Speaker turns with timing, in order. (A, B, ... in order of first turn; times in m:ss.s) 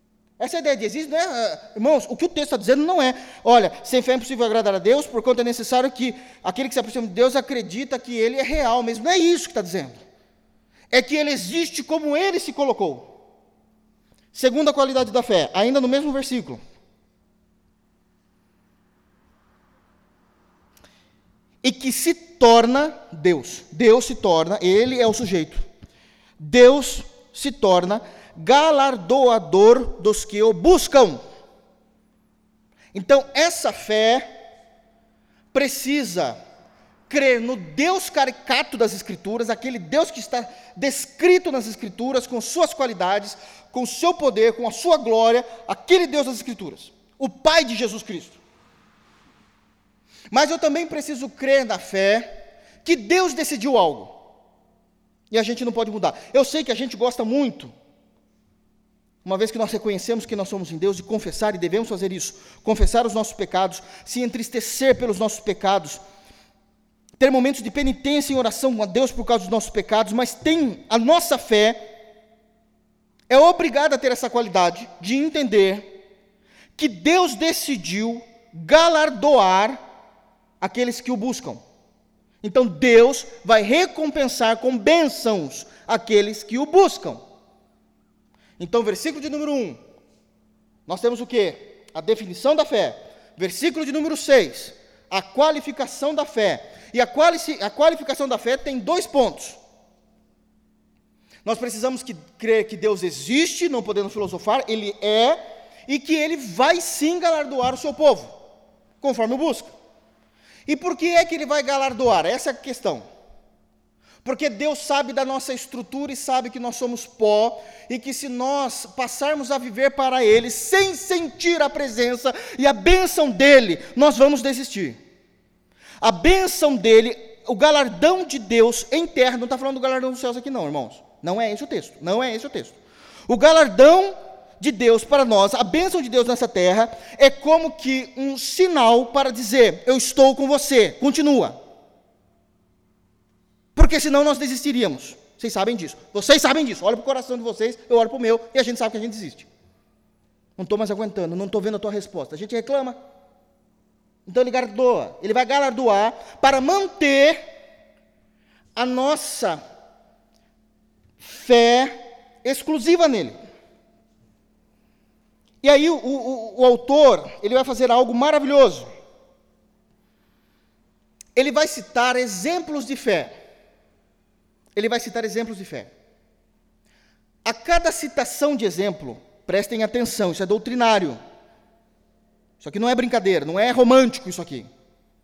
0:00.4-0:10.0 A
0:10.9-0:13.1 A
0:14.3-0:16.6 A
0:21.6-0:25.7 A
0:26.4-0:31.2 A
0:32.9-0:34.3 A
0:35.5-0:36.4 A
0:37.1-0:48.4 A
0:50.3-0:54.2 A
0:55.3-0:57.7 A
0:59.2-1:06.0 A
1:07.2-1:11.8 A
1:13.3-1:15.9 A
1:16.8-1:19.8 A
1:20.6-1:21.6 A
1:22.4-1:27.2 A
1:28.6-1:29.8 A
1:30.9-1:39.6 A
1:41.4-1:48.4 A
1:49.0-1:49.7 A
1:50.7-1:53.0 A
1:54.2-2:05.0 A
2:06.0-2:21.6 A
2:23.8-2:29.5 A
2:30.6-2:33.0 A
2:34.3-2:37.4 A
2:38.8-2:39.6 A
2:41.2-2:43.4 A
2:45.6-2:48.9 A
2:51.4-2:53.4 A
2:54.8-2:55.9 A
2:57.4-3:01.2 A
3:02.6-3:04.7 A